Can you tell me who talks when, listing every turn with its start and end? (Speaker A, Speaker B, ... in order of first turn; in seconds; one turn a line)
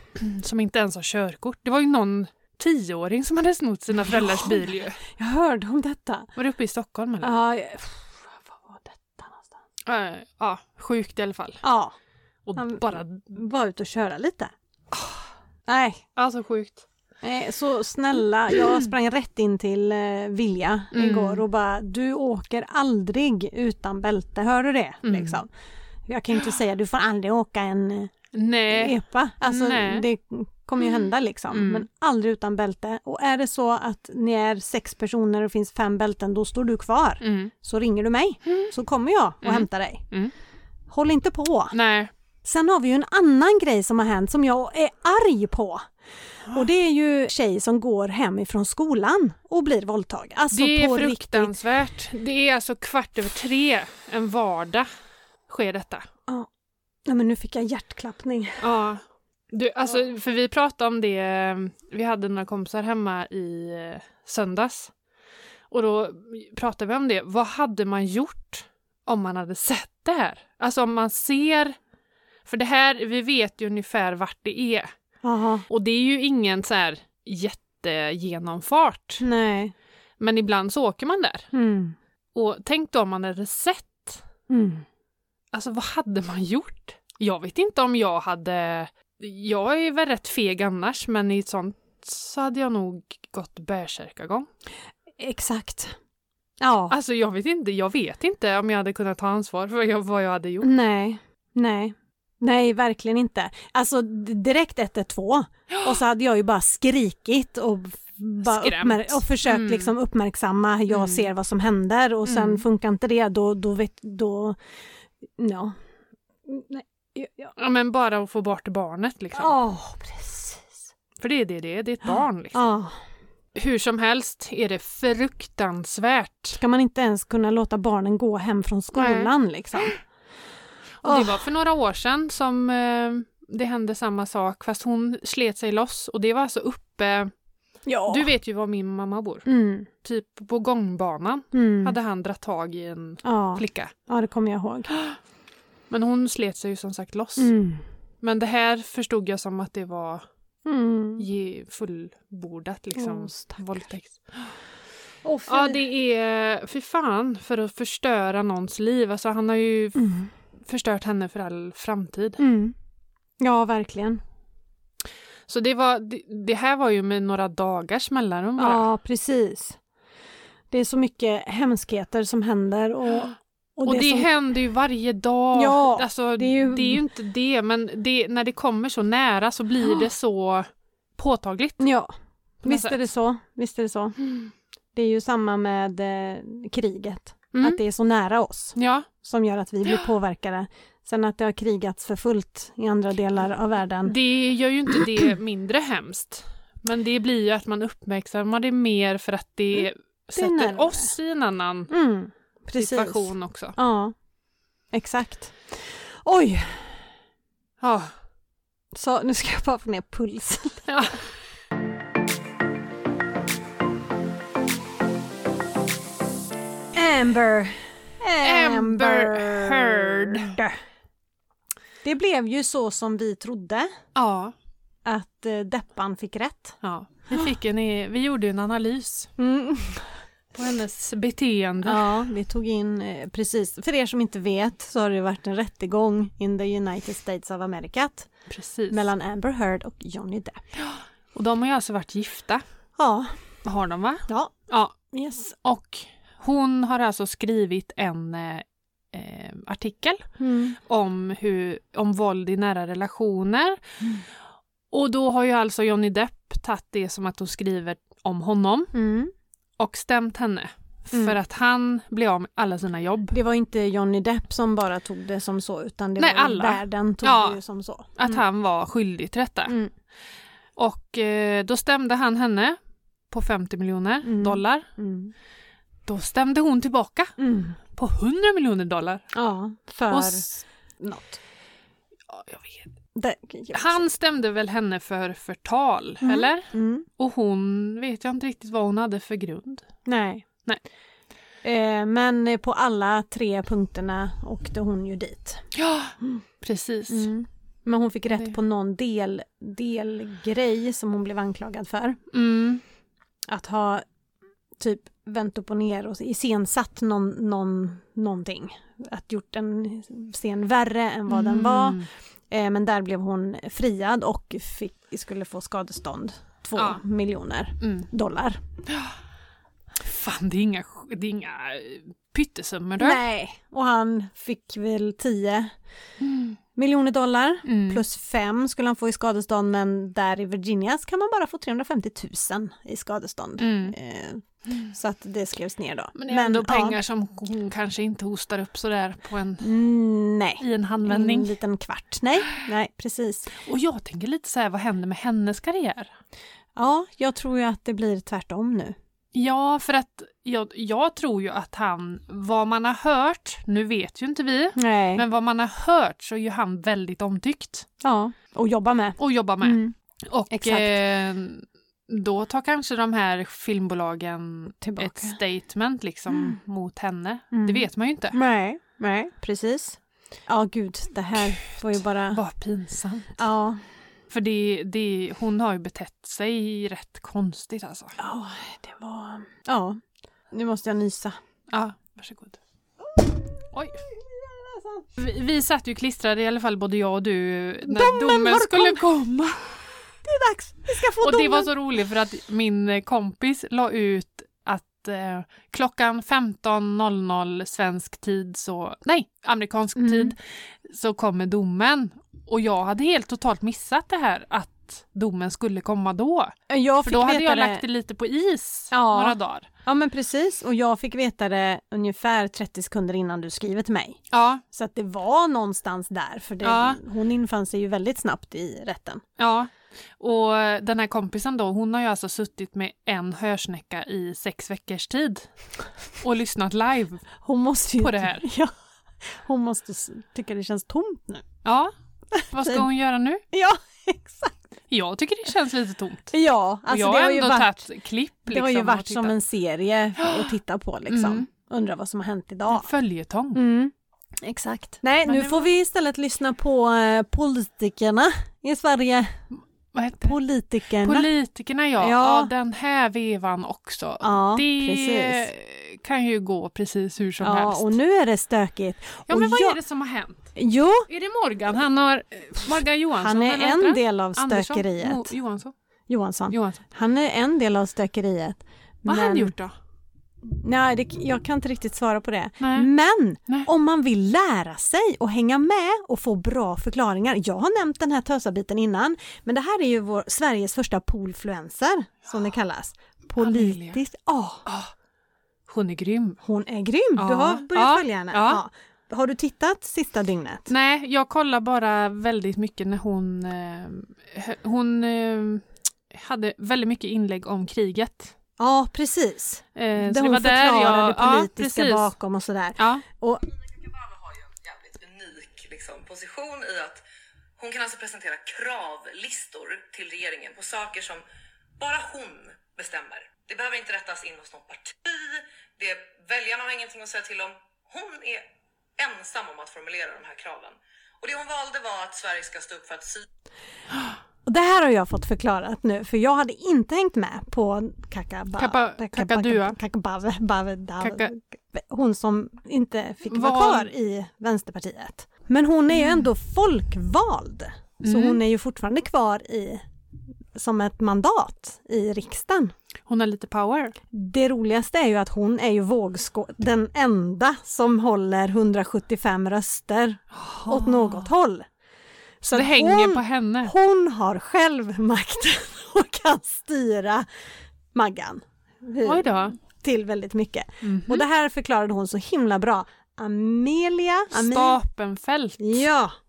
Speaker A: 0.1-5.0
Speaker B: 4.1-6.3
Speaker A: 6.3-7.4
Speaker B: 7.2-9.5
Speaker A: 9.8-11.6
Speaker B: 11.6-11.9
Speaker A: 12.4-13.2
Speaker B: 12.6-14.5
Speaker B: 15.7-16.0
Speaker A: 16.1-16.9
Speaker B: 17.2-25.5
Speaker A: 20.9-21.4
Speaker A: 25.0-25.4
Speaker B: 26.1-28.1
Speaker A: 28.3-30.0
Speaker B: 28.7-40.0
Speaker A: 31.5-31.9
Speaker A: 37.2-37.5
Speaker A: 39.4-40.3
Speaker B: 40.9-41.7
Speaker A: 41.7-42.1
Speaker B: 42.4-45.9
Speaker B: 46.4-51.5
Speaker A: 50.5-54.9
Speaker A: 55.5-56.0
Speaker B: 57.0-58.6
Speaker A: 58.6-64.9
Speaker A: 65.7-71.8
Speaker A: 72.5-74.9
Speaker B: 75.2-75.6
Speaker A: 75.7-79.2
Speaker B: 79.2-79.7
Speaker A: 80.2-81.5
Speaker B: 81.5-82.0
Speaker A: 82.3-84.2
Speaker B: 84.5-84.8
Speaker A: 85.5-94.5
Speaker B: 95.2-96.0
Speaker B: 96.6-97.0
Speaker A: 96.9-100.7
Speaker B: 100.6-114.6
Speaker A: 108.4-109.9
Speaker A: 110.9-111.2
Speaker A: 112.2-112.6
Speaker B: 115.4-115.7
Speaker B: 116.5-117.5
Speaker A: 117.6-119.5
Speaker B: 119.3-120.8
Speaker A: 121.2-122.6
Speaker B: 122.5-123.0
Speaker A: 123.5-126.6
Speaker B: 126.6-130.0
Speaker A: 128.9-129.9
Speaker A: 131.0-137.3
Speaker B: 131.0-131.4
Speaker B: 137.8-138.3
Speaker A: 138.1-139.4
Speaker B: 139.4-139.9
Speaker A: 140.0-143.9
Speaker B: 141.5-141.9
Speaker B: 143.2-144.9
Speaker A: 145.9-147.5
Speaker B: 147.4-147.8
Speaker A: 148.2-150.2
Speaker B: 150.6-151.2
Speaker A: 151.2-154.5
Speaker B: 152.9-153.7
Speaker B: 155.2-155.8
Speaker A: 155.5-160.0
Speaker B: 159.9-160.3
Speaker A: 160.6-162.4
Speaker B: 162.4-162.7
Speaker B: 163.4-164.2
Speaker A: 165.5-168.8
Speaker B: 168.6-169.8
Speaker B: 170.7-174.3
Speaker A: 173.8-181.8
Speaker B: 175.5-177.0
Speaker B: 181.8-182.1
Speaker B: 182.6-184.2
Speaker A: 182.6-182.9
Speaker B: 184.9-194.2
Speaker A: 187.5-187.8
Speaker A: 188.8-189.1
Speaker A: 194.0-201.9
Speaker B: 200.3-201.1
Speaker B: 201.9-204.1
Speaker A: 202.8-203.8
Speaker B: 204.9-207.0
Speaker A: 207.8-208.1
Speaker B: 208.9-211.1
Speaker A: 210.9-211.2
Speaker B: 216.9-220.8
Speaker A: 218.4-220.6
Speaker B: 222.0-223.9
Speaker A: 224.1-224.5
Speaker B: 225.0-226.8
Speaker A: 226.8-229.3
Speaker B: 229.4-230.2
Speaker A: 230.5-232.1
Speaker B: 231.8-238.3
Speaker A: 238.5-239.1
Speaker B: 238.9-240.6
Speaker A: 240.8-242.6
Speaker B: 243.0-243.3
Speaker A: 243.6-245.0
Speaker B: 244.3-244.5
Speaker B: 245.1-245.5
Speaker A: 245.5-250.3
Speaker B: 250.4-250.8
Speaker A: 250.8-253.8
Speaker A: 254.9-258.9
Speaker B: 258.9-259.3
Speaker A: 259.8-263.4
Speaker B: 261.1-261.4
Speaker B: 263.3-268.4
Speaker A: 266.2-267.6
Speaker A: 268.1-269.7
Speaker B: 269.7-269.9
Speaker A: 270.8-272.8
Speaker A: 273.3-274.9
Speaker B: 274.2-275.3
Speaker A: 276.1-277.3
Speaker B: 277.4-277.8
Speaker A: 277.9-279.2
Speaker B: 279.3-281.4
Speaker A: 280.1-280.5
Speaker A: 282.3-282.9
Speaker B: 283.1-284.1
Speaker A: 283.7-289.9
Speaker B: 286.2-287.1
Speaker B: 290.1-290.4
Speaker B: 291.6-295.6
Speaker A: 295.7-297.3
Speaker B: 297.1-302.2
Speaker A: 302.3-302.8
Speaker B: 303.5-304.0
Speaker B: 304.8-318.6
Speaker A: 311.3-312.1
Speaker A: 316.8-317.0
Speaker A: 317.8-318.1
Speaker A: 319.9-323.2
Speaker B: 323.0-325.7
Speaker A: 326.2-326.6
Speaker B: 326.8-337.0
Speaker A: 327.6-328.0
Speaker A: 333.6-333.9
Speaker A: 336.1-339.7
Speaker B: 339.6-343.5
Speaker A: 340.6-341.5
Speaker A: 343.6-346.1
Speaker B: 346.8-348.9
Speaker A: 349.3-357.9
Speaker B: 354.7-355.2
Speaker B: 358.0-359.9
Speaker A: 359.2-368.4
Speaker B: 360.5-361.0
Speaker B: 364.8-365.4
Speaker B: 366.3-366.6
Speaker B: 367.5-372.4
Speaker A: 371.7-373.4
Speaker B: 373.4-373.8
Speaker A: 374.3-378.1
Speaker B: 378.2-380.0
Speaker B: 380.5-381.4
Speaker A: 381.7-382.6
Speaker B: 383.1-385.1
Speaker A: 383.7-384.0
Speaker A: 385.2-389.7
Speaker B: 387.8-389.0
Speaker B: 390.2-391.7
Speaker A: 391.2-409.7
Speaker B: 399.9-400.3
Speaker B: 406.7-407.8
Speaker B: 408.9-414.2
Speaker A: 414.3-414.6
Speaker B: 414.7-419.2
Speaker A: 416.6-417.0
Speaker A: 419.4-425.5
Speaker A: 426.2-427.3
Speaker B: 427.4-428.7
Speaker A: 428.0-428.4
Speaker B: 429.2-431.4
Speaker A: 431.6-431.9
Speaker B: 432.3-432.9
Speaker A: 432.5-433.4
Speaker B: 433.5-434.6
Speaker A: 434.9-436.3
Speaker B: 436.3-437.8
Speaker A: 436.9-439.3
Speaker B: 438.5-442.9
Speaker A: 440.2-440.5
Speaker A: 441.1-441.4
Speaker A: 442.7-443.6
Speaker B: 443.5-449.4
Speaker A: 445.2-445.7
Speaker A: 449.9-450.4
Speaker B: 450.2-451.3
Speaker A: 451.0-457.9
Speaker B: 452.0-452.5
Speaker B: 454.2-455.5
Speaker B: 457.4-459.8
Speaker A: 459.3-460.5
Speaker B: 460.5-461.1
Speaker A: 461.1-465.7
Speaker B: 463.2-465.3
Speaker B: 466.1-469.5
Speaker A: 466.5-466.8
Speaker A: 469.0-469.7
Speaker B: 470.4-484.6
Speaker A: 472.6-472.9
Speaker A: 483.4-484.0
Speaker A: 484.6-484.9
Speaker A: 485.7-486.4
Speaker B: 486.4-490.7
Speaker A: 487.2-488.6
Speaker A: 490.7-498.3
Speaker B: 498.6-503.4
Speaker A: 499.8-502.1
Speaker A: 502.8-503.0
Speaker C: 503.8-507.0
Speaker C: 507.6-511.2
Speaker C: 511.8-523.2
Speaker B: 524.5-539.8
Speaker A: 528.6-529.8
Speaker A: 531.0-531.3
Speaker A: 533.3-533.9
Speaker A: 535.9-536.2
Speaker A: 538.0-538.4
Speaker B: 540.5-542.7
Speaker A: 543.0-543.9
Speaker B: 544.1-551.6
Speaker A: 550.3-551.3
Speaker B: 552.4-557.2
Speaker A: 552.5-553.7
Speaker B: 557.9-564.8
Speaker A: 559.0-559.5
Speaker A: 560.8-561.2
Speaker A: 564.3-565.9
Speaker B: 565.6-566.1